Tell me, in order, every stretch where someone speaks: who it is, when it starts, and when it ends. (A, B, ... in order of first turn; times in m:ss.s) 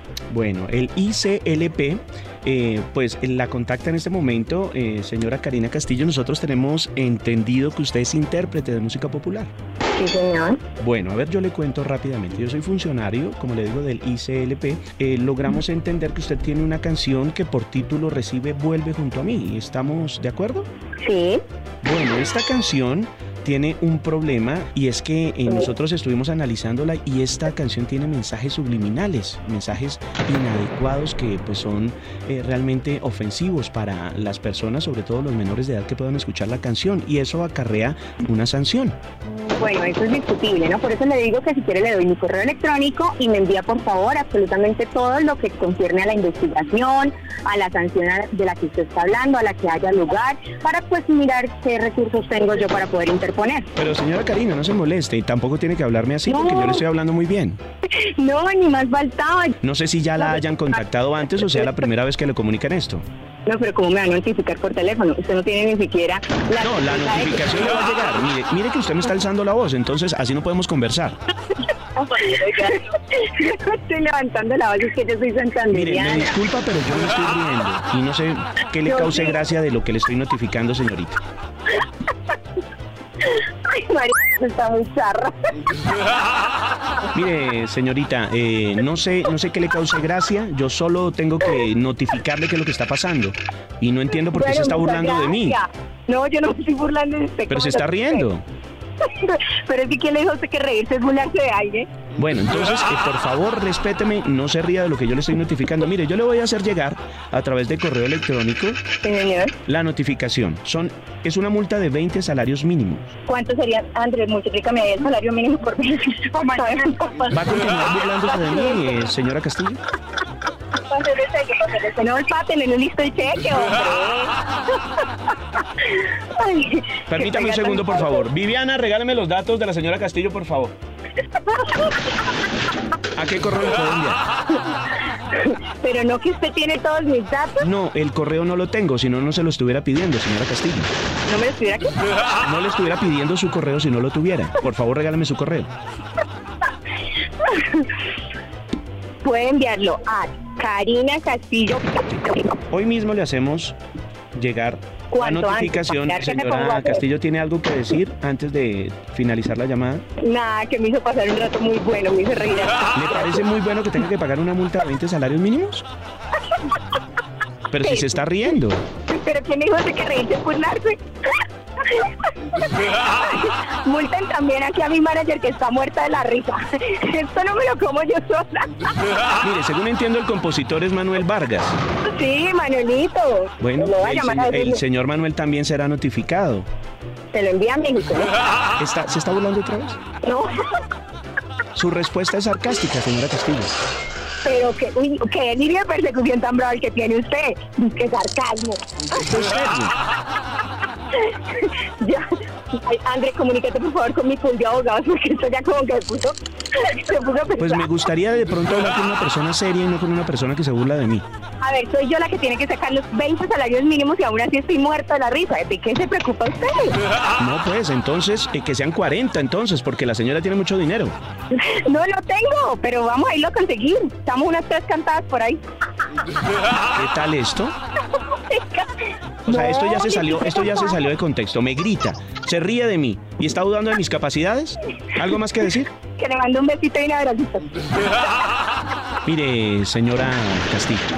0:00.3-0:09.5 A
0:10.0-0:10.6 B
0:10.8-0:20.7 A
0:21.0-0:21.4 B
0:21.8-0:39.0 A
0:39.4-0:53.7 B
0:53.8-0:57.6 A
0:56.3-0:56.8 B
0:57.9-0:59.6 B
0:59.6-1:03.0 A
1:01.4-1:01.7 B
1:03.5-1:07.7 B
1:06.6-1:11.2 A
1:12.0-1:16.3 B
1:15.7-1:21.2 A
1:18.9-1:19.4 B
1:23.3-1:25.7 B
1:27.1-1:35.6 A
1:34.3-1:38.3 B
1:37.5-1:38.4 A
1:39.0-1:41.9 B
1:42.2-1:48.8 A
1:49.0-1:49.6 B
1:49.7-1:53.1 A
1:53.3-1:57.4 B
1:57.3-1:59.8 A
1:58.0-1:59.1 B
2:00.9-2:04.4 B
2:05.8-2:08.3 B
2:07.1-2:10.8 A
2:11.4-2:12.0 B
2:13.2-2:14.2 A
2:15.3-2:17.7 B
2:17.6-2:20.9 A
2:21.2-2:22.0 B
2:22.4-2:25.7 A
2:27.4-2:27.9 B
2:29.2-2:32.5 B
2:32.7-2:33.8 A
2:34.3-2:40.0 A
2:35.1-2:37.0 B
2:40.2-2:43.4 B
2:43.0-2:45.9 A
2:47.7-2:48.8 A
2:47.8-2:48.5 B
2:49.1-2:51.0 B
2:51.8-2:58.9 B
2:59.4-3:01.8 A
3:02.0-3:04.8 B
3:03.6-3:06.7 A
3:07.3-3:08.3 B
3:08.8-3:10.0 A
3:10.2-3:10.5 B
3:11.8-3:13.8 A
3:14.4-3:18.8 B
3:19.1-3:19.9 A
3:21.3-3:27.9 B
3:27.6-3:31.2 A
3:31.6-3:37.0 B
3:37.4-3:41.2 A
3:41.5-3:45.6 B
3:46.9-3:47.8 A
3:48.3-3:48.9 B
3:49.5-3:55.9 A
3:49.5-3:51.0 B
3:56.2-3:57.9 B
3:59.2-4:01.1 A